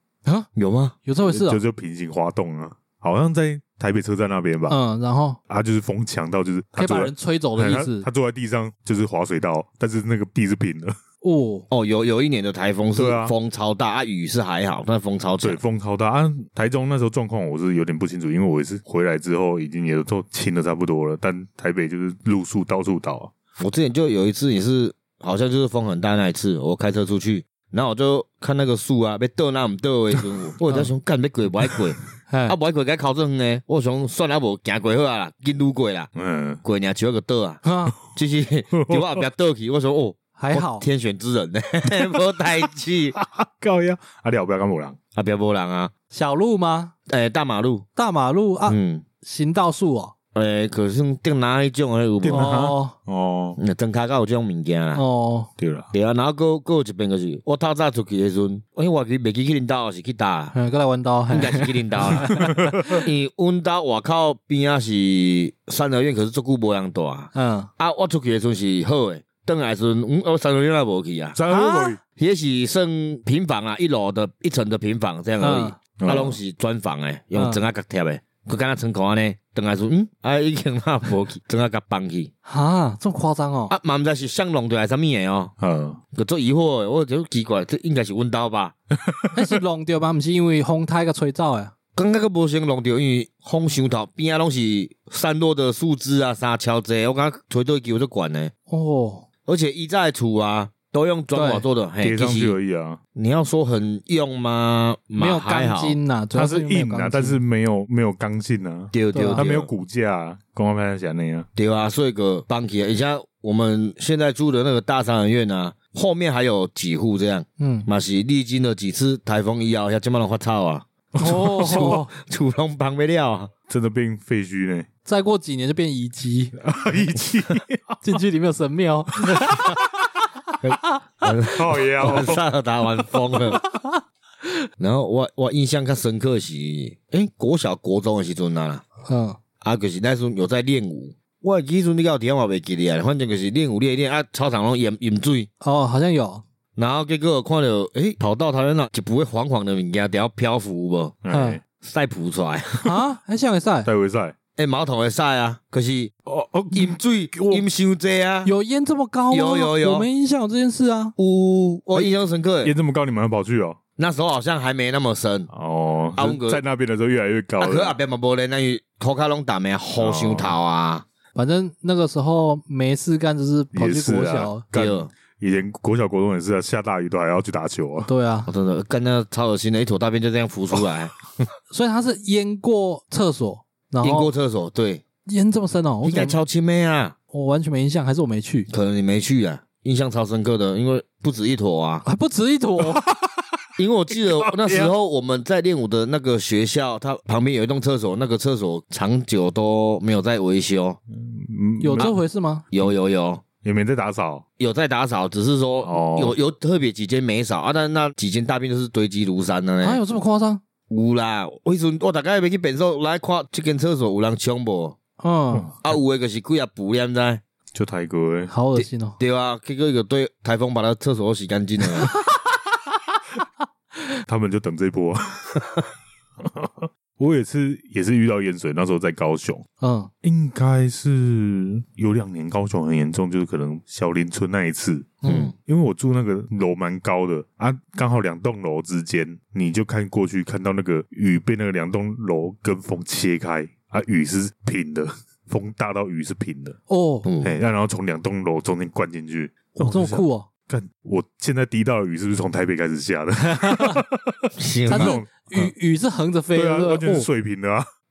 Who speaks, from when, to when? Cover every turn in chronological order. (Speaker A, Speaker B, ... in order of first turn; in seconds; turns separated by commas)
Speaker A: 0.6-0.9, Speaker B: 1.0-1.6, Speaker C: 1.3-4.8, Speaker B: 4.7-5.4, Speaker C: 5.5-10.9, Speaker B: 6.8-8.1, Speaker B: 11.2-11.7, Speaker A: 11.7-15.6, Speaker C: 12.9-13.3, Speaker C: 15.4-23.3, Speaker A: 23.6-36.1, Speaker B: 32.3-32.5, Speaker C: 36.1-36.6, Speaker A: 36.6-43.1, Speaker B: 37.6-37.9, Speaker C: 38.8-39.2, Speaker B: 40.4-40.9, Speaker C: 41.9-45.0, Speaker A: 45.1-45.9, Speaker B: 46.1-46.9, Speaker A: 47.1-47.9, Speaker B: 48.0-50.1, Speaker A: 48.7-49.0, Speaker A: 50.3-52.5, Speaker C: 52.2-53.6, Speaker B: 52.3-52.9, Speaker A: 53.6-55.0, Speaker B: 54.9-55.5, Speaker C: 55.6-55.9, Speaker A: 55.9-60.5, Speaker B: 60.5-63.0, Speaker A: 61.3-71.4, Speaker C: 62.4-63.0, Speaker B: 67.3-67.7, Speaker C: 71.3-72.0, Speaker B: 71.5-72.0, Speaker A: 72.2-82.3, Speaker B: 75.4-75.8, Speaker C: 76.0-76.4, Speaker B: 77.3-77.6, Speaker B: 82.4-83.7, Speaker A: 83.7-85.5, Speaker C: 85.6-86.0, Speaker A: 86.1-88.7, Speaker C: 89.0-89.5, Speaker B: 89.3-91.7, Speaker A: 91.9-98.5, Speaker B: 98.7-99.2, Speaker A: 99.5-102.5, Speaker B: 101.3-101.7, Speaker C: 102.0-103.0, Speaker A: 103.1-106.0, Speaker B: 105.2-107.4, Speaker C: 106.3-111.5, Speaker A: 108.9-109.7, Speaker B: 109.1-109.4, Speaker A: 111.5-123.5, Speaker B: 117.6-117.9, Speaker C: 121.2-122.0, Speaker B: 121.2-122.1, Speaker C: 123.7-124.9, Speaker B: 125.0-126.5, Speaker C: 126.6-128.2, Speaker B: 128.0-129.7, Speaker C: 129.4-129.8, Speaker A: 130.6-133.6, Speaker C: 131.4-132.4, Speaker A: 134.8-138.8, Speaker B: 139.1-139.4, Speaker A: 139.6-145.5, Speaker B: 145.6-146.4, Speaker A: 146.8-151.2, Speaker C: 151.2-151.6, Speaker B: 151.3-151.6, Speaker A: 151.8-152.9, Speaker B: 152.8-153.9, Speaker C: 153.8-154.3, Speaker A: 154.6-156.1, Speaker C: 156.3-157.6, Speaker A: 156.7-158.5, Speaker B: 158.4-161.1, Speaker A: 159.3-160.1, Speaker A: 161.2-162.7, Speaker C: 162.6-163.8, Speaker A: 164.0-165.5, Speaker C: 165.5-168.0, Speaker A: 166.2-166.6, Speaker A: 167.6-171.0, Speaker C: 169.9-170.6, Speaker B: 171.3-174.6, Speaker C: 173.7-178.1, Speaker A: 174.7-175.1, Speaker B: 178.1-178.5, Speaker A: 178.5-181.3, Speaker B: 181.7-184.3, Speaker A: 184.0-185.0, Speaker B: 185.2-186.4, Speaker A: 186.0-187.1, Speaker B: 187.3-188.7, Speaker A: 188.7-192.0, Speaker B: 192.0-193.0, Speaker C: 193.1-193.6, Speaker A: 193.8-201.0, Speaker C: 194.1-194.9, Speaker C: 201.1-202.2, Speaker B: 201.8-202.6, Speaker A: 202.7-203.4, Speaker C: 203.6-204.4, Speaker A: 204.6-210.0, Speaker C: 205.8-206.4, Speaker B: 209.8-210.6, Speaker A: 210.9-215.0, Speaker B: 215.2-215.7, Speaker A: 215.8-217.4, Speaker C: 217.7-218.5, Speaker B: 218.5-219.2, Speaker A: 218.8-222.1, Speaker C: 224.3-225.8, Speaker C: 226.4-229.6, Speaker B: 229.8-230.1, Speaker C: 230.2-246.8, Speaker B: 235.2-235.5, Speaker A: 235.2-235.5, Speaker B: 246.9-247.3, Speaker A: 247.2-247.6, Speaker C: 247.4-255.7, Speaker B: 249.7-250.5, Speaker B: 253.4-254.0, Speaker A: 254.6-255.2, Speaker B: 254.9-257.3, Speaker C: 256.5-257.9